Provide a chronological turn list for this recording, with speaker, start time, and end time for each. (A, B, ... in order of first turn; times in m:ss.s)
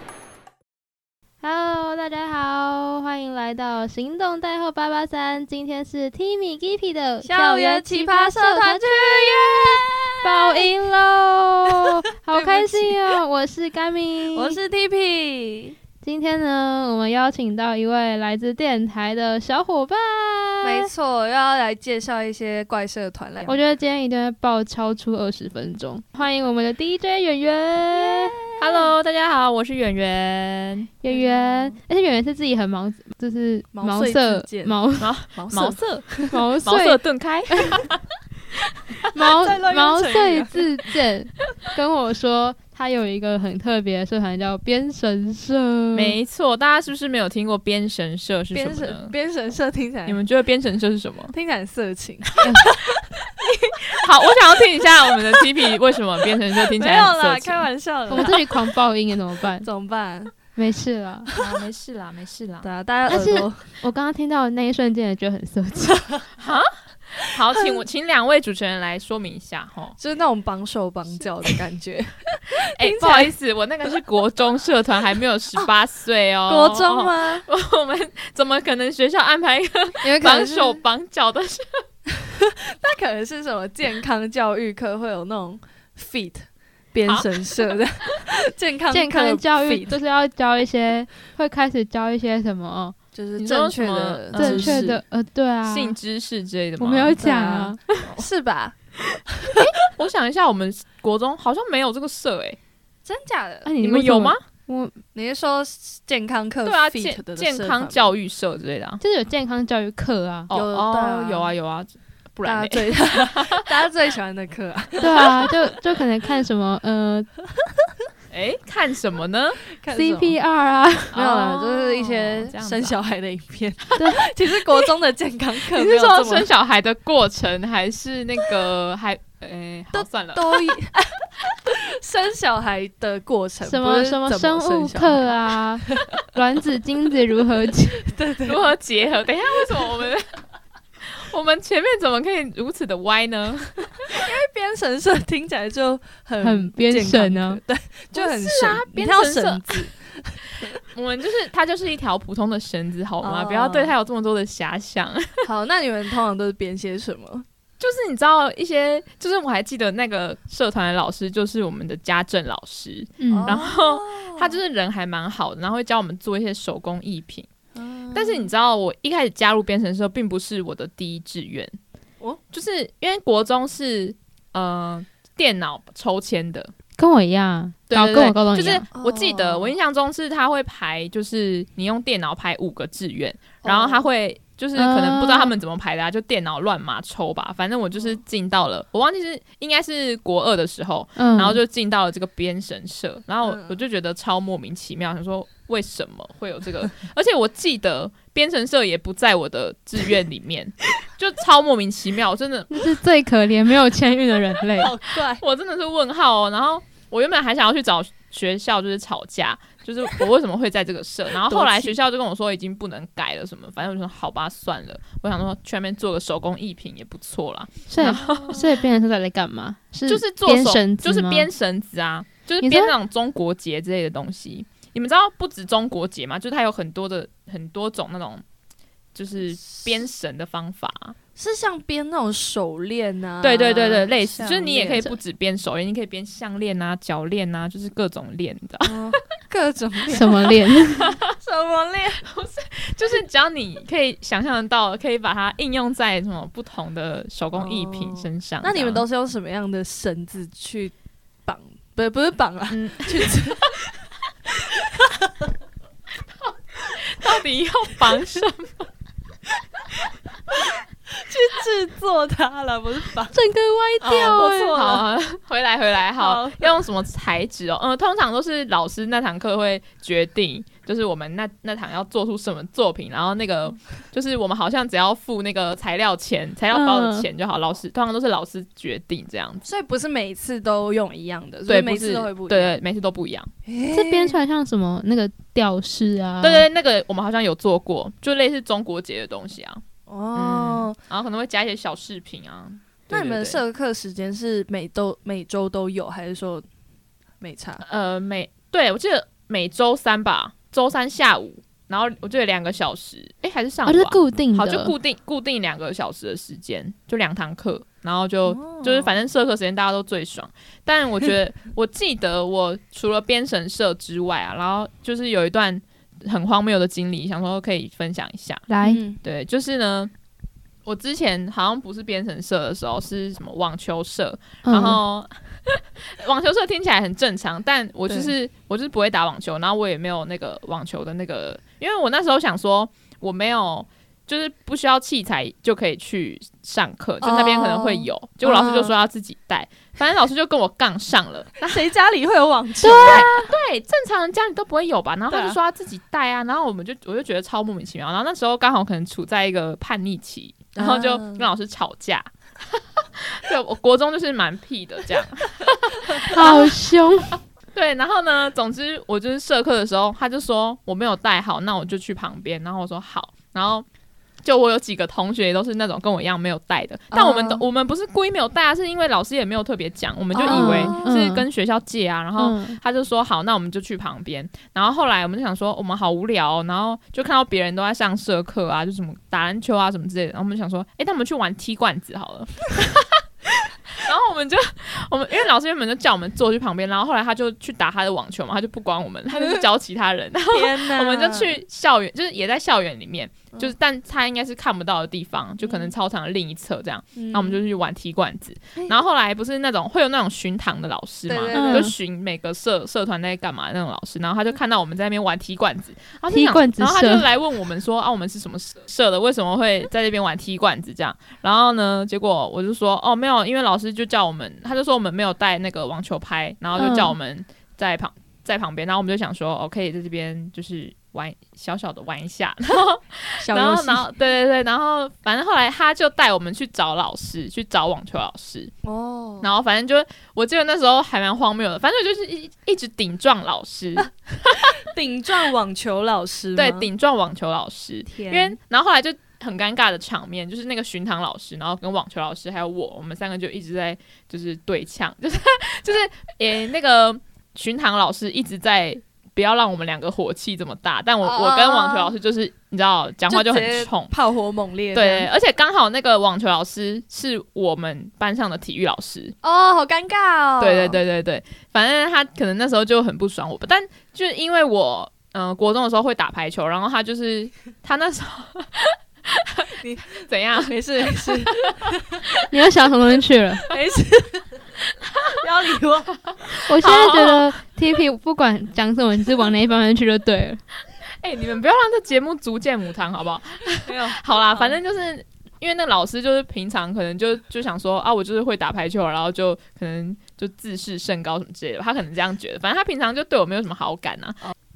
0:01.4-0:14.6 A
0:07.2-0:10.6 B
0:12.3-0:13.0 B
0:14.3-0:15.8 B
0:16.0-0:20.9 A
0:20.6-0:23.6 B
0:23.4-0:28.3 A
0:28.6-0:30.9 C
0:31.0-0:35.1 A
0:31.1-0:31.8 B
0:33.7-0:36.4 B
0:35.0-0:38.0 C
0:36.3-0:37.0 A
0:39.1-0:46.2 A
0:39.2-0:40.6 B
0:45.9-0:49.1 C
0:48.5-0:50.2 B
0:50.0-0:51.3 C
0:51.3-0:52.8 B
0:53.9-0:58.3 C
0:56.8-0:58.6 B
0:58.1-0:59.6 A
0:59.6-1:00.3 B
1:00.5-1:01.3 A
1:01.4-1:02.7 C
1:02.6-1:03.7 B
1:03.1-1:06.1 A
1:06.4-1:10.0 C
1:10.0-1:13.3 B
1:12.7-1:21.6 C
1:16.5-1:17.4 B
1:20.0-1:20.8 B
1:22.2-1:30.0 B
1:27.0-1:27.8 C
1:28.9-1:32.9 A
1:33.1-1:35.0 B
1:33.4-1:34.9 C
1:34.3-1:36.0 A
1:35.6-1:37.2 C
1:36.8-1:38.1 A
1:37.2-1:38.8 B
1:39.6-1:42.6 C
1:43.0-1:43.7 B
1:43.6-1:45.0 A
1:43.8-1:44.4 C
1:45.1-1:48.1 B
1:46.6-1:49.0 C
1:49.0-1:50.5 A
1:50.5-1:53.6 C
1:50.5-1:51.5 B
1:52.4-1:55.5 B
1:55.0-1:57.3 A
1:55.1-1:55.5 C
1:58.3-1:59.6 C
1:59.8-2:00.4 B
1:59.9-2:01.2 A
2:01.1-2:03.0 C
2:01.1-2:06.5 B
2:04.0-2:04.2 A
2:05.7-2:10.8 C
2:09.9-2:15.4 B
2:13.6-2:18.1 A
2:18.0-2:18.7 B
2:18.4-2:20.2 C
2:21.0-2:24.1 C
2:24.1-2:30.3 B
2:26.4-2:27.6 A
2:28.1-2:29.9 C
2:30.9-2:35.5 C
2:33.2-2:33.9 B
2:35.4-2:37.4 B
2:37.8-2:47.5 C
2:43.2-2:43.6 A
2:43.3-2:44.6 B
2:47.8-2:48.5 B
2:48.1-2:51.7 C
2:52.5-2:56.7 C
2:57.0-2:58.9 A
2:57.9-3:22.8 C
2:58.9-2:59.8 B
3:03.6-3:04.0 B
3:04.7-3:05.5 A
3:11.2-3:11.6 A
3:13.4-3:13.8 B
3:22.7-3:24.9 A
3:24.8-3:25.4 B
3:25.2-3:38.7 C
3:31.5-3:31.9 B
3:37.9-3:41.5 A
3:38.0-3:38.6 B
3:40.1-3:48.4 C
3:42.6-3:42.9 A
3:49.1-3:51.2 C
3:51.4-3:55.0 B
3:53.4-3:59.2 C
3:58.8-4:00.5 B
4:00.1-4:01.1 A
4:01.3-4:02.2 B
4:02.2-4:09.0 C
4:07.5-4:10.9 B
4:11.4-4:13.7 B
4:12.7-4:13.8 C
4:16.4-4:18.9 C
4:21.1-4:23.3 B
4:23.3-4:24.8 A
4:24.0-4:25.0 B
4:24.0-4:39.6 C
4:26.2-4:26.7 B
4:36.7-4:37.3 A
4:39.6-4:42.8 B
4:41.6-4:43.5 C
4:43.6-4:44.4 B
4:43.9-4:46.7 A
4:46.4-4:49.8 C
4:50.1-4:51.0 B
4:50.3-4:53.6 C
4:53.1-4:56.6 B
4:57.4-4:57.8 B
4:57.8-5:18.7 C
5:03.8-5:04.9 A
5:08.5-5:09.2 B
5:18.7-5:19.0 A
5:18.8-5:19.2 B
5:19.2-5:20.1 C
5:20.8-5:41.8 C
5:24.6-5:25.0 A
5:37.2-5:38.9 B
5:41.6-5:43.3 B
5:42.8-5:43.5 A
5:42.8-5:56.8 C
5:45.3-5:45.6 B
5:50.7-5:51.5 B
5:56.3-5:57.4 A
5:57.7-6:03.8 C
6:04.4-7:08.7 C
6:07.1-6:07.6 B
6:10.3-6:11.1 B
6:10.4-6:11.4 A
6:12.4-6:12.8 A
6:29.3-6:29.6 B
6:30.5-6:31.6 B
6:35.6-6:35.9 B
6:37.2-6:37.6 B
6:41.3-6:41.9 B
6:41.5-6:41.9 A
6:46.3-6:47.2 A
6:56.7-6:57.1 A
7:03.4-7:04.1 B
7:08.8-7:09.5 B
7:09.4-7:14.7 C
7:14.9-7:16.9 B
7:16.6-7:34.1 C
7:18.1-7:18.6 B
7:31.2-7:32.1 B
7:33.3-7:35.3 B
7:34.9-7:39.3 C
7:39.4-7:41.0 B
7:40.6-7:51.9 C
7:49.8-7:52.2 B
7:52.5-7:53.7 A
7:53.7-7:56.2 B
7:56.6-8:00.6 A
7:56.8-7:57.5 C
8:01.2-8:14.4 C
8:03.8-8:04.8 B